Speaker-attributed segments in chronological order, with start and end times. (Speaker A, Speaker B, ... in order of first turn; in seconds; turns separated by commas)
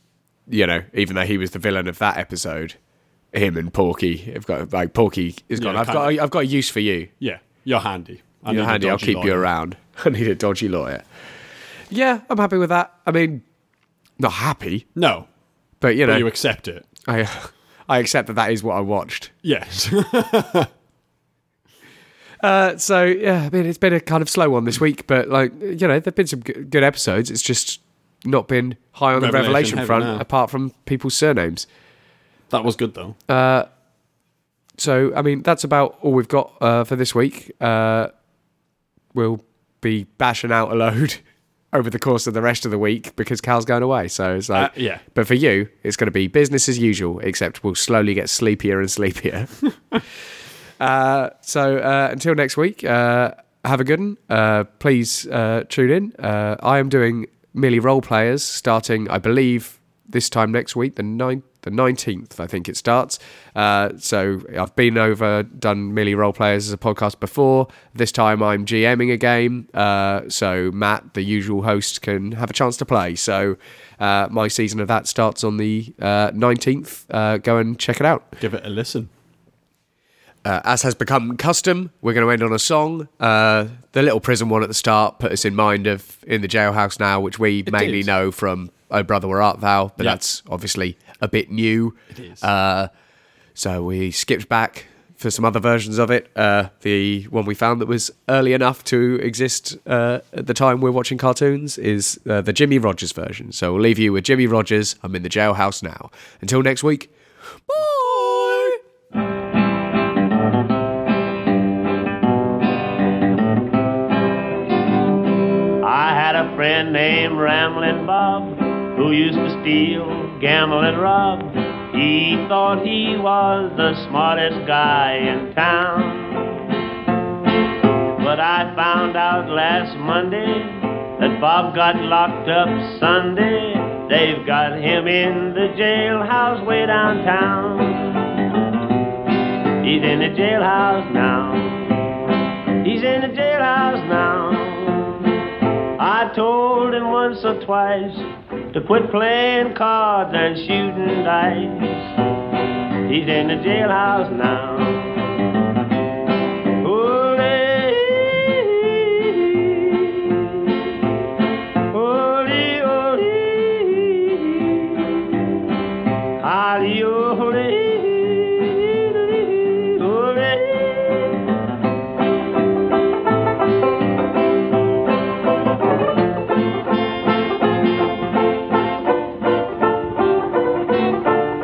Speaker A: 0.5-2.8, Speaker A: 3.3-7.1, Speaker B: 5.5-6.2, Speaker B: 7.2-9.5, Speaker A: 8.5-11.0, Speaker A: 11.9-13.4, Speaker A: 14.2-14.9, Speaker B: 14.9-15.3, Speaker A: 15.8-16.3, Speaker B: 16.1-16.9, Speaker A: 17.1-19.3, Speaker B: 19.4-20.7, Speaker A: 22.4-31.7, Speaker B: 29.1-30.2, Speaker B: 32.5-33.2, Speaker A: 33.3-33.7, Speaker A: 34.8-38.1, Speaker A: 39.1-41.2, Speaker A: 41.7-49.5, Speaker B: 44.5-45.0, Speaker A: 50.8-78.4, Speaker B: 78.4-79.1, Speaker A: 80.5-92.9, Speaker B: 87.7-88.1, Speaker A: 93.5-107.1, Speaker A: 107.7-108.8, Speaker C: 115.8-126.6, Speaker C: 128.2-138.5, Speaker C: 139.8-145.4, Speaker C: 146.0-152.1, Speaker C: 153.1-155.4, Speaker C: 156.8-160.9, Speaker C: 161.9-165.4, Speaker C: 166.4-171.4